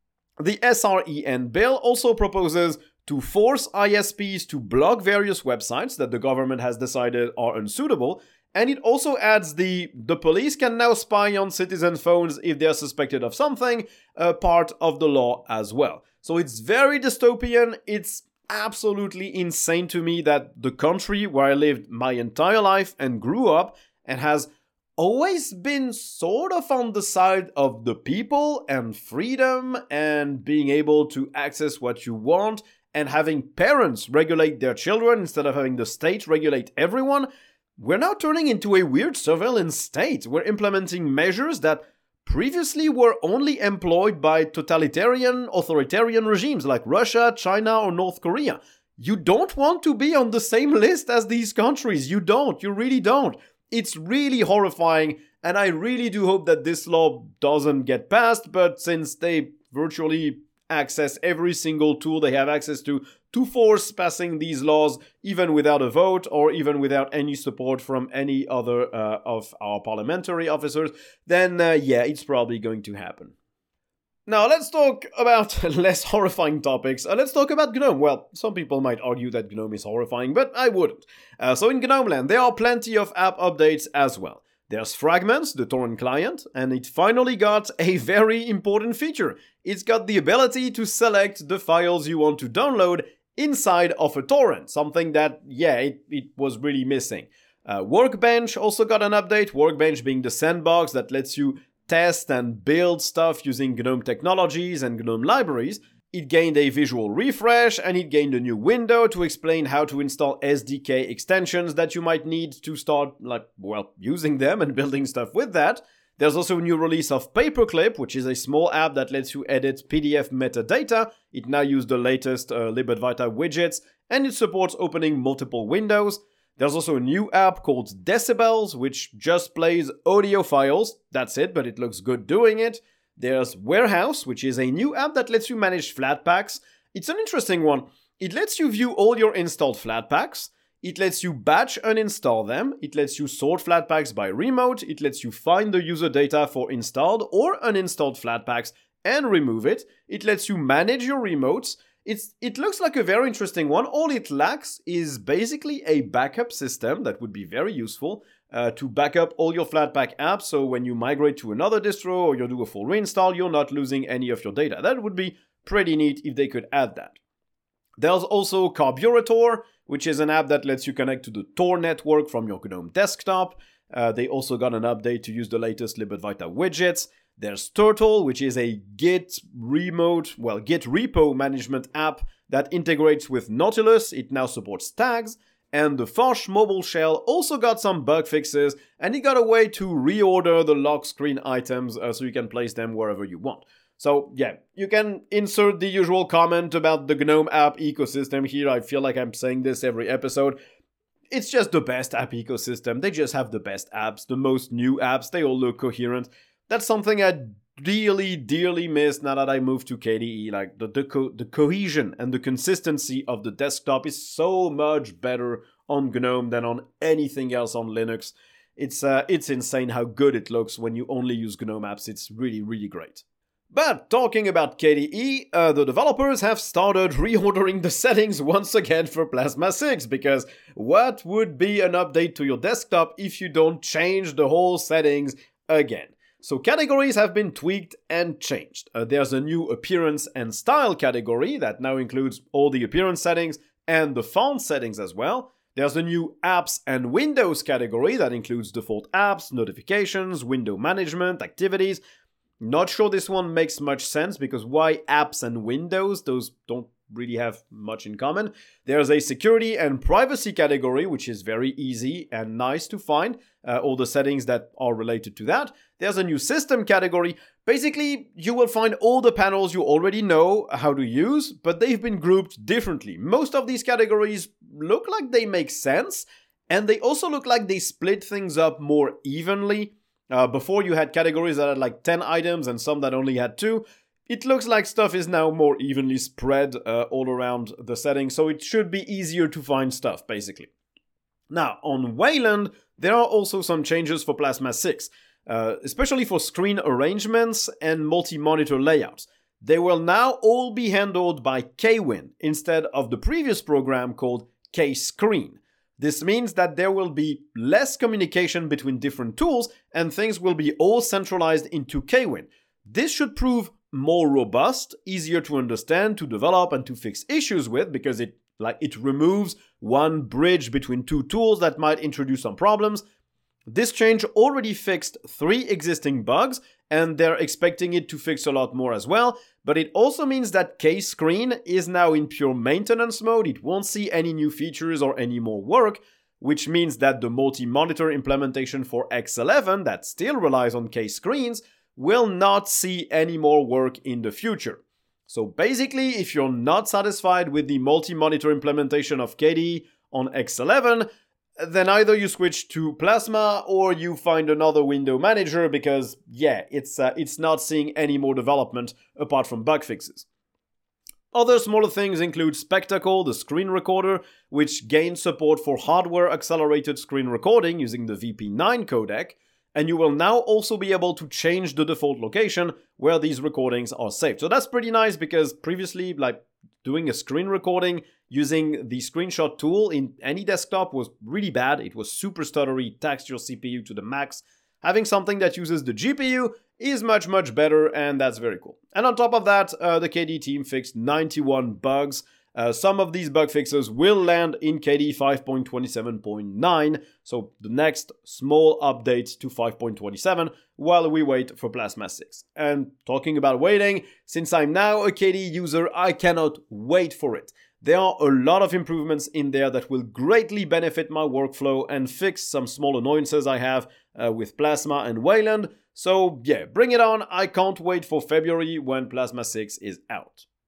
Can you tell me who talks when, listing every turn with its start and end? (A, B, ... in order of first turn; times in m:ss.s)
0:00.4-1:13.3 A
1:14.2-2:47.2 A
2:48.0-3:20.6 A
3:21.3-4:12.0 A
4:12.6-4:50.7 A
4:51.5-5:23.0 A
5:23.7-5:51.0 A
5:51.6-6:00.2 A
6:01.3-7:00.4 A